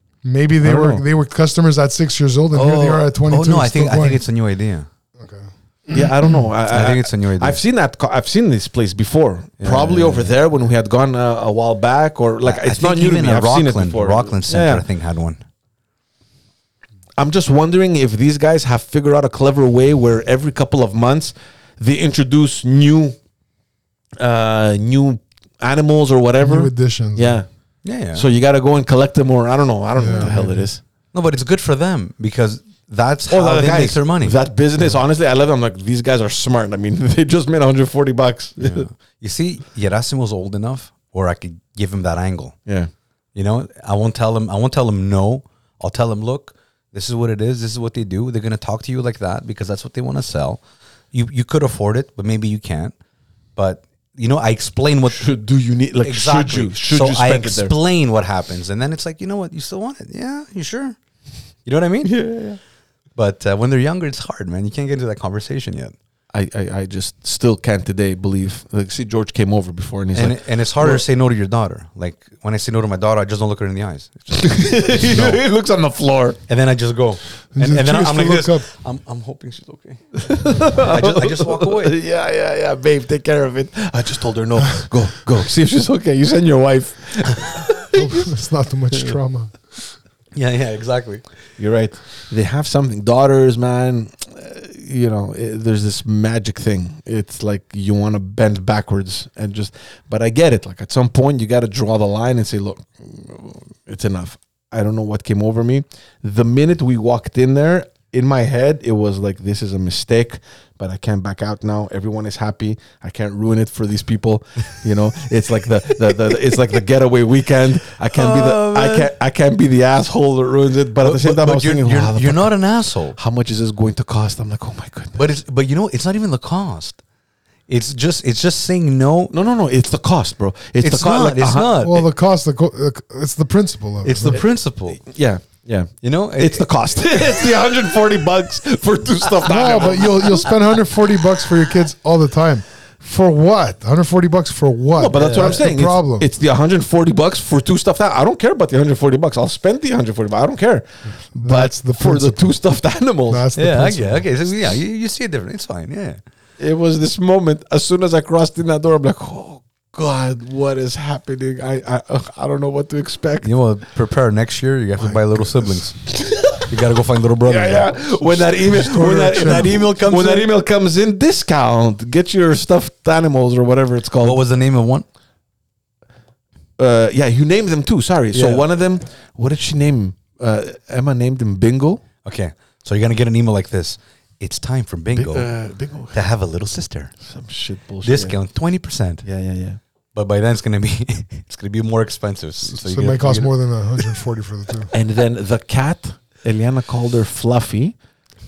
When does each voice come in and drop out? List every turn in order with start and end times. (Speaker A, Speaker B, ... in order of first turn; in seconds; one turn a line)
Speaker A: 0.2-4.2
Speaker B: 0.6-1.0
Speaker C: 2.5-4.9
Speaker A: 5.2-6.3
Speaker B: 5.9-14.8
Speaker C: 6.7-7.6
Speaker C: 9.6-10.3
Speaker C: 12.4-15.4
Speaker B: 17.2-23.2
Speaker B: 24.2-27.5
Speaker A: 26.4-27.4
Speaker C: 27.8-28.2
Speaker B: 28.1-30.8
Speaker A: 30.0-30.7
Speaker C: 31.1-34.4
Speaker B: 33.3-38.9
Speaker C: 38.6-42.5
Speaker C: 43.4-50.6
Speaker C: 51.1-52.9
Speaker C: 53.5-55.3
Speaker B: 55.1-57.7
Speaker C: 56.0-61.0
Speaker C: 61.6-62.6
Speaker C: 63.1-65.9
Speaker B: 66.3-71.0
Speaker C: 70.1-75.4
Speaker B: 74.3-76.4
Speaker C: 76.5-81.9
Speaker A: 77.5-78.7
Speaker B: 80.2-88.3
Speaker A: 87.9-89.7
Speaker C: 90.3-91.2
Speaker B: 91.6-122.6
Speaker C: 118.1-119.1
Speaker C: 121.0-123.2
Speaker B: 123.1-125.2
Speaker C: 125.1-127.0
Speaker C: 127.7-129.3
Speaker B: 129.3-131.8
Speaker C: 130.8-132.1
Speaker A: 131.8-134.4
Speaker C: 134.0-135.0
Speaker B: 134.9-140.4
Speaker C: 136.0-137.3
Speaker A: 139.4-146.3
Speaker B: 144.9-153.4
Speaker C: 145.1-145.7
Speaker A: 151.3-152.6
Speaker A: 153.3-154.2
Speaker C: 153.6-156.2
Speaker B: 156.6-163.5
Speaker C: 163.4-170.5
Speaker B: 166.1-166.7
Speaker B: 167.4-174.4
Speaker A: 168.7-169.7
Speaker C: 174.2-175.1
Speaker B: 176.8-182.0
Speaker C: 178.3-178.7
Speaker C: 182.2-185.5
Speaker B: 185.1-186.2
Speaker C: 186.1-187.1
Speaker B: 187.2-188.4
Speaker C: 188.0-189.2
Speaker B: 189.2-189.8
Speaker C: 190.1-194.2
Speaker A: 192.7-194.9
Speaker B: 194.9-197.9